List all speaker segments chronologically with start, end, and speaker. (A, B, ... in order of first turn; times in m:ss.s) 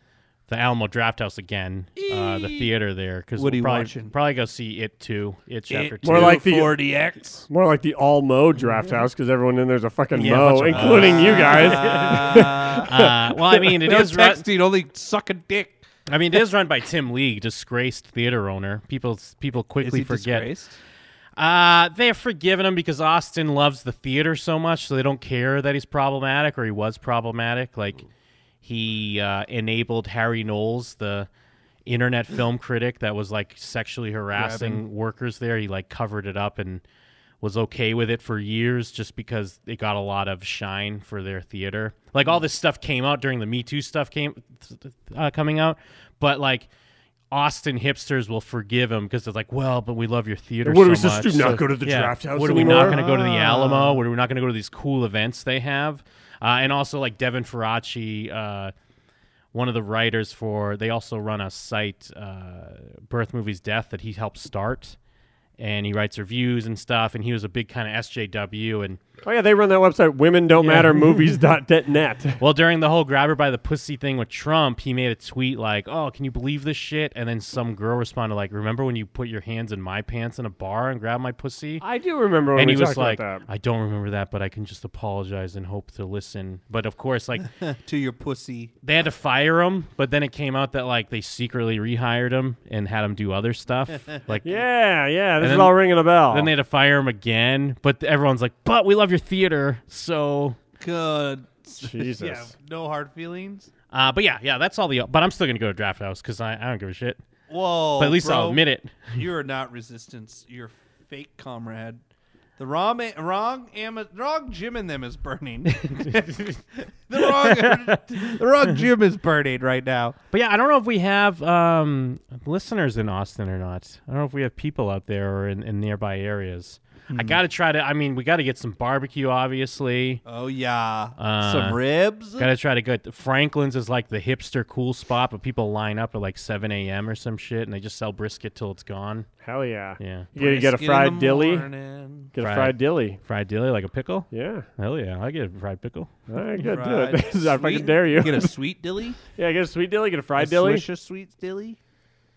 0:00.5-0:06.4 A
0:02.0-0:02.7 B
0:03.4-0:04.1 B
0:05.7-0:07.5 B
0:06.0-0:06.8 C
0:07.5-0:13.8 C
0:10.1-0:14.4 A
0:10.7-0:12.9 B
0:13.8-0:15.8 B
0:16.1-0:20.5 A
0:19.8-0:20.8 B
0:21.4-0:28.0 A
0:28.6-0:31.3 A
0:31.8-0:36.8 A
0:34.3-0:34.8 B
0:37.4-0:46.7 A
0:47.3-0:58.7 A
0:50.6-0:53.0 C
0:52.5-0:54.0 B
0:59.5-1:05.0 A
1:05.6-1:09.0 A
1:09.2-1:12.4 C
1:10.6-1:11.0 A
1:12.4-1:21.8 A
1:21.8-1:23.4 C
1:22.5-1:27.5 A
1:27.6-1:28.7 B
1:28.8-1:34.6 A
1:34.4-1:36.5 C
1:35.4-1:40.6 A
1:40.8-1:43.7 B
1:41.8-1:42.5 C
1:43.9-1:47.2 A
1:47.5-1:52.0 B
1:48.0-1:49.2 A
1:52.6-1:56.4 B
1:55.8-1:56.6 A
1:57.1-2:00.2 B
1:57.2-1:58.3 A
2:00.3-2:10.2 A
2:07.1-2:07.4 B
2:10.2-2:12.5 B
2:11.2-2:19.3 A
2:19.4-2:21.7 C
2:20.0-2:20.3 A
2:20.4-2:22.3 B
2:22.3-2:23.2 C
2:22.4-2:26.1 A
2:24.3-2:24.7 C
2:26.3-2:28.5 C
2:26.6-2:29.2 B
2:29.4-2:30.8 C
2:30.4-2:31.8 B